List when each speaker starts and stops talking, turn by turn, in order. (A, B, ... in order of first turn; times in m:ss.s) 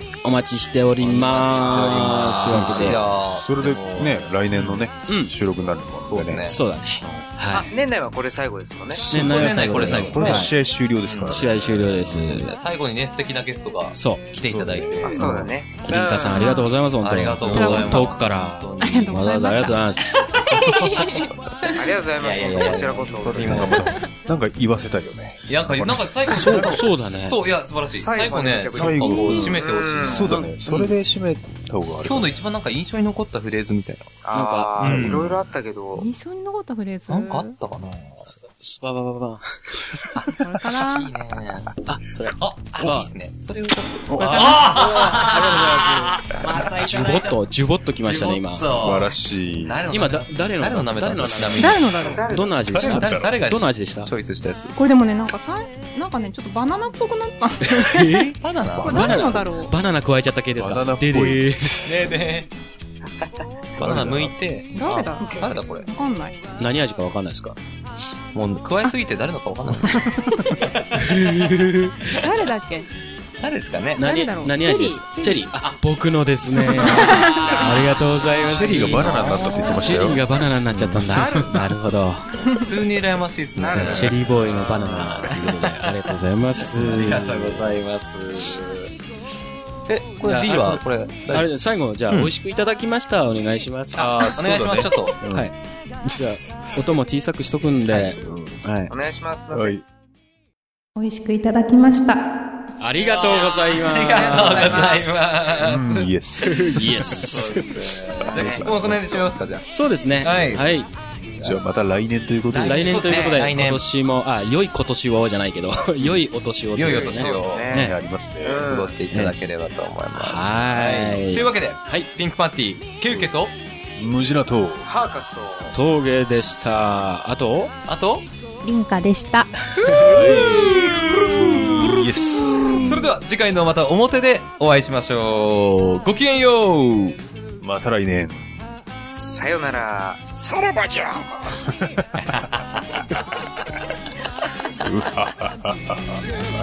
0:00.2-0:03.0 A
0:01.0-0:04.8 B
0:02.1-0:07.3 C
0:06.0-0:06.6 B
0:06.5-0:07.6 A
0:07.7-0:09.0 D
0:08.9-0:12.4 C
0:09.0-0:11.6 B
0:09.1-0:10.5 A
0:11.3-0:12.5 A
0:12.3-0:16.0 B
0:13.9-0:14.2 A
0:14.4-0:15.5 C
0:15.0-0:16.6 D
0:15.8-0:20.1 A
0:16.3-0:16.7 E
0:17.0-0:19.3 B
0:17.5-0:18.2 E
0:18.8-0:21.8 E
0:20.6-0:21.1 C
0:21.7-0:23.8 D
0:22.2-0:23.8 B
0:23.3-0:26.8 C
0:25.5-0:30.9 B
0:26.3-0:27.4 A
0:28.0-0:30.4 D
0:28.7-0:32.3 C
0:32.0-0:34.2 B
0:34.2-0:36.1 D
0:34.3-0:35.2 A
0:34.8-0:35.4 B
0:36.0-0:37.5 E
0:37.1-0:38.3 B
0:38.3-0:40.2 A
0:40.2-0:41.7 B
0:40.4-0:41.1 E
0:41.8-0:43.1 A
0:42.3-0:47.4 B
0:44.1-0:44.6 C
0:44.1-0:48.6 A
0:48.0-0:52.2 B
0:48.6-0:49.8 C
0:49.9-0:54.1 A
0:51.6-0:52.2 E
0:52.0-0:52.9 D
0:52.7-0:53.3 C
0:52.7-0:54.7 B
0:54.7-0:59.7 E
0:57.6-1:01.7 A
0:58.4-0:59.4 B
0:58.7-0:59.5 C
1:00.5-1:02.1 C
1:01.8-1:02.5 B
1:03.8-1:05.9 B
1:03.8-1:04.4 C
1:04.8-1:06.4 E
1:06.6-1:07.6 A
1:08.3-1:11.4 B
1:11.0-1:12.1 A
1:12.0-1:12.4 B
1:12.0-1:12.8 E
1:13.4-1:14.0 B
1:14.0-1:15.5 E
1:14.0-1:22.4 A
1:16.7-1:17.5 E
1:16.8-1:20.1 B
1:18.4-1:21.4 C
1:21.1-1:21.6 D
1:22.5-1:25.9 B
1:23.6-1:25.3 D
1:23.7-1:27.6 A
1:26.7-1:28.9 B
1:29.9-1:31.6 B
1:30.2-1:34.2 A
1:33.9-1:35.5 C
1:34.0-1:35.2 B
1:35.3-1:38.9 A
1:36.0-1:36.9 C
1:37.9-1:38.6 C
1:38.9-1:39.8 D
1:39.5-1:39.8 C
1:41.0-1:42.2 E
1:42.8-1:45.0 A
1:43.0-1:45.4 D
1:43.2-1:46.1 B
1:45.6-1:47.6 C
1:46.4-1:47.6 A
1:47.1-1:49.7 B
1:48.3-1:48.7 D
1:48.3-1:49.2 C
1:49.7-1:50.9 A
1:50.2-1:50.7 B
1:51.4-1:53.1 C
1:52.5-1:53.8 B
1:52.6-1:58.0 A
1:56.7-1:57.7 B
1:56.8-1:59.0 D
1:57.7-1:58.7 C
1:58.5-2:03.5 B
2:00.1-2:02.1 A
2:04.0-2:04.9 C
2:04.8-2:05.8 D
2:05.7-2:07.7 A
2:07.8-2:08.3 B
2:08.6-2:09.5 E
2:10.0-2:13.1 C
2:10.0-2:12.1 B
2:12.7-2:17.2 B
2:17.6-2:18.4 C
2:19.0-2:20.2 D
2:20.3-2:21.4 A
2:21.5-2:22.2 C
2:22.2-2:22.8 B
2:24.8-2:26.2 C